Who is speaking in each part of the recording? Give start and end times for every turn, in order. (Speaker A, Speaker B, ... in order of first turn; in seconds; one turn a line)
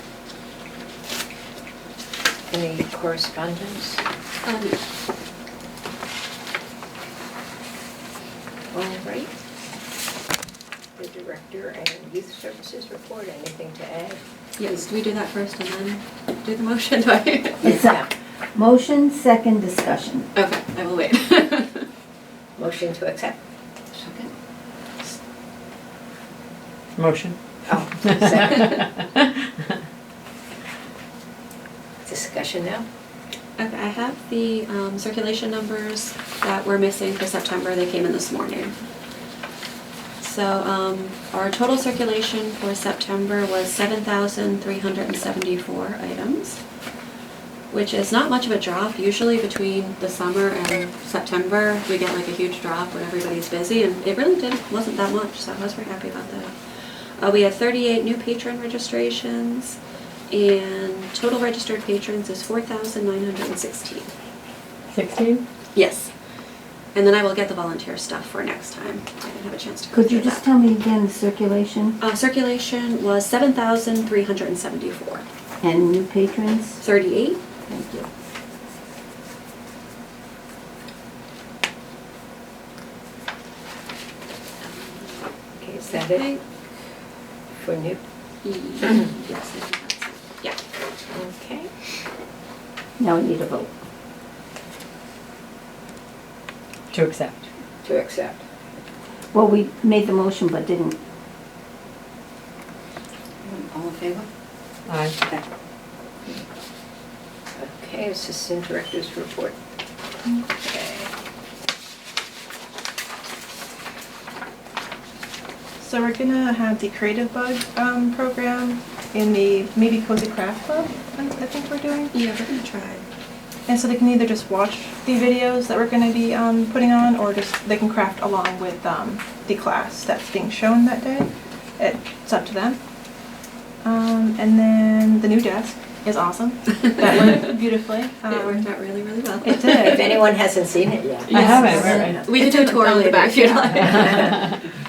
Speaker A: 2.5-4.0
Speaker B: 4.4-4.8
Speaker B: 8.7-9.3
Speaker A: 11.0-14.2
Speaker B: 14.6-17.7
Speaker A: 17.6-18.1
Speaker C: 17.6-20.3
Speaker B: 20.4-21.9
Speaker A: 22.6-23.4
Speaker D: 27.0-29.5
Speaker A: 27.7-28.9
Speaker A: 32.0-32.9
Speaker B: 33.6-38.8
Speaker B: 40.2-46.6
Speaker B: 47.7-56.5
Speaker B: 57.2-59.8
Speaker B: 60.3-64.1
Speaker D: 64.9-65.5
Speaker B: 65.8-66.1
Speaker B: 66.9-70.5
Speaker C: 69.9-72.0
Speaker B: 72.0-75.3
Speaker C: 75.6-76.8
Speaker B: 76.8-77.4
Speaker C: 77.7-78.1
Speaker B: 84.6-85.2
Speaker A: 85.6-86.3
Speaker B: 85.9-86.4
Speaker A: 87.5-88.0
Speaker B: 88.4-90.6
Speaker A: 91.1-91.7
Speaker C: 93.0-93.7
Speaker D: 96.9-97.5
Speaker A: 97.8-98.4
Speaker C: 99.3-101.0
Speaker D: 104.9-105.2
Speaker A: 107.6-109.6
Speaker A: 110.5-111.1
Speaker E: 115.8-122.1
Speaker B: 122.1-123.0
Speaker E: 123.7-132.8
Speaker E: 133.8-138.7
Speaker B: 137.0-137.5
Speaker B: 138.2-140.2
Speaker E: 139.4-140.2
Speaker A: 139.8-141.7
Speaker B: 141.3-144.4
Speaker D: 141.3-142.4
Speaker E: 141.3-144.4
Speaker D: 143.7-144.6